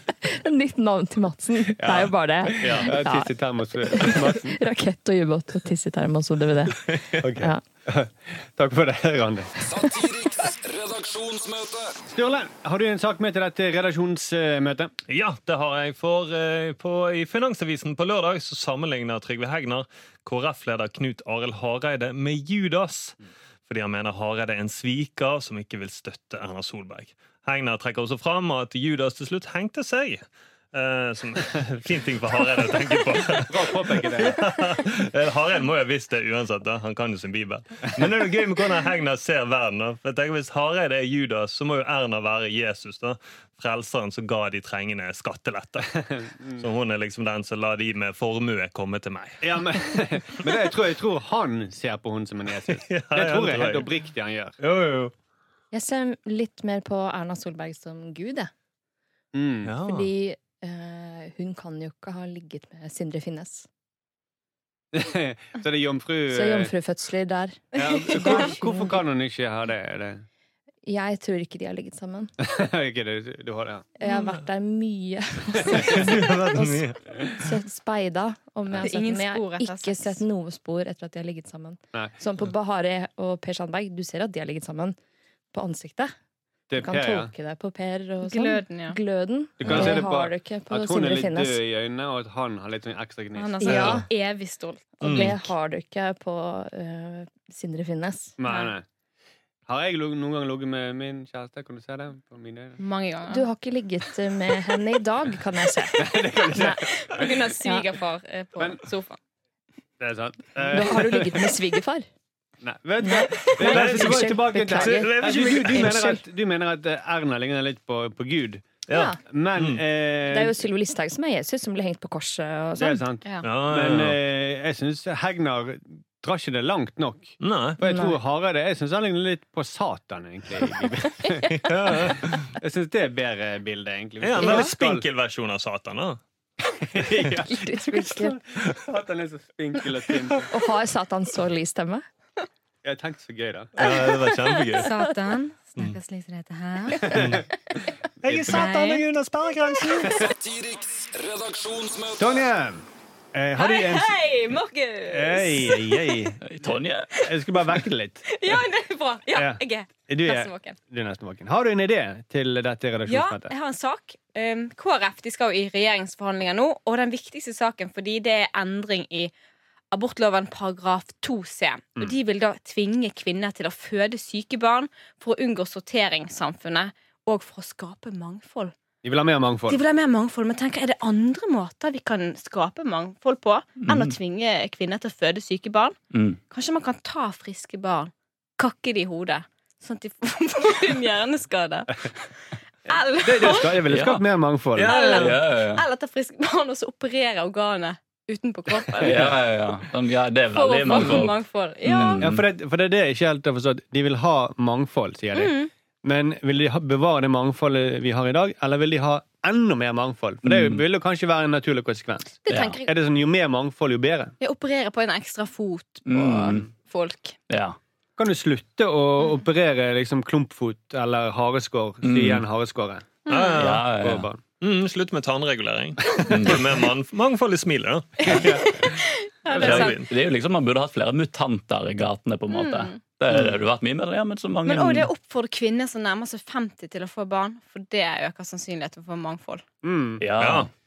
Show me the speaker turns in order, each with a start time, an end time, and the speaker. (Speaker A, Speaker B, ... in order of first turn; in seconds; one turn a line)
Speaker A: 0.2-3.3
Speaker B: 1.8-4.6
Speaker C: 2.6-2.9
Speaker A: 3.9-7.6
Speaker C: 6.9-7.2
Speaker B: 7.2-9.5
Speaker D: 9.7-11.9
Speaker B: 12.1-14.9
Speaker C: 15.1-23.1
Speaker C: 23.7-49.4
Speaker B: 33.4-34.5
Speaker B: 46.1-46.6
Speaker B: 49.4-54.6
Speaker C: 52.7-53.9
Speaker C: 54.6-55.1
Speaker A: 55.7-58.5
Speaker B: 59.3-59.7
Speaker C: 59.6-60.1
Speaker A: 59.8-63.7
Speaker B: 64.9-66.7
Speaker A: 66.3-69.0
Speaker B: 67.7-70.2
Speaker A: 70.8-72.3
Speaker B: 72.4-73.8
Speaker A: 74.0-85.0
Speaker C: 75.7-77.3
Speaker E: 78.8-80.2
Speaker A: 85.5-86.1
Speaker B: 86.7-87.3
Speaker A: 86.7-91.6
Speaker E: 88.2-89.0
Speaker B: 89.6-94.0
Speaker E: 93.3-95.0
Speaker A: 93.6-94.1
Speaker C: 93.7-94.0
Speaker A: 95.0-98.3
Speaker C: 95.0-95.5
Speaker B: 98.4-98.8
Speaker E: 98.4-98.7
Speaker B: 99.7-102.8
Speaker E: 102.8-103.5
Speaker A: 103.3-106.9
Speaker B: 106.0-107.3
Speaker E: 106.8-109.2
Speaker B: 110.0-111.4
Speaker A: 110.6-112.0
Speaker B: 112.6-118.7
Speaker A: 113.0-116.2
Speaker C: 113.6-116.0
Speaker C: 118.9-119.8
Speaker A: 118.9-119.2
Speaker B: 119.3-120.5
Speaker A: 120.3-123.0
Speaker B: 122.8-131.5
Speaker C: 123.4-124.2
Speaker C: 127.4-127.8
Speaker A: 127.8-128.2
Speaker C: 131.5-132.5
Speaker B: 132.6-135.1
Speaker C: 134.2-136.2
Speaker A: 134.4-134.7
Speaker B: 136.8-140.5
Speaker A: 137.4-138.4
Speaker A: 140.5-142.0
Speaker B: 142.8-143.7
Speaker C: 143.8-144.9
Speaker A: 143.8-144.8
Speaker E: 144.7-147.2
Speaker C: 147.0-147.4
Speaker B: 147.1-147.4
Speaker C: 148.2-150.2
Speaker B: 148.2-148.6
Speaker E: 148.4-149.1
Speaker D: 150.1-152.5
Speaker B: 152.2-154.2
Speaker E: 153.6-156.1
Speaker B: 155.1-156.4
Speaker F: 156.4-157.1
Speaker B: 157.2-158.4
Speaker E: 158.3-160.8
Speaker B: 159.3-163.5
Speaker E: 163.1-169.3
Speaker E: 169.9-178.7
Speaker B: 179.0-179.8
Speaker E: 179.7-185.9
Speaker F: 183.8-184.1
Speaker F: 186.1-186.4
Speaker E: 186.5-192.3
Speaker E: 192.8-193.8
Speaker B: 193.2-194.9
Speaker F: 193.8-194.2
Speaker C: 194.8-195.4
Speaker E: 194.8-199.4
Speaker F: 194.9-195.8
Speaker F: 198.9-202.4
Speaker E: 200.5-202.2
Speaker B: 202.2-214.3
Speaker E: 205.3-205.7
Speaker F: 210.4-210.8
Speaker E: 212.4-212.9
Speaker F: 212.5-212.8
Speaker E: 214.4-217.4
Speaker F: 216.1-216.7
Speaker F: 217.5-217.8
Speaker B: 218.2-223.1
Speaker F: 222.0-222.4
Speaker E: 223.2-223.7
Speaker C: 223.3-223.9
Speaker F: 223.6-224.3
Speaker B: 224.0-224.4
Speaker C: 224.6-228.8
Speaker F: 226.3-226.6
Speaker E: 228.2-230.0
Speaker B: 228.2-228.9
Speaker C: 229.5-230.1
Speaker F: 229.6-235.1
Speaker E: 232.5-233.0
Speaker E: 234.6-239.6
Speaker B: 239.8-240.2
Speaker F: 240.2-240.6
Speaker C: 240.4-240.7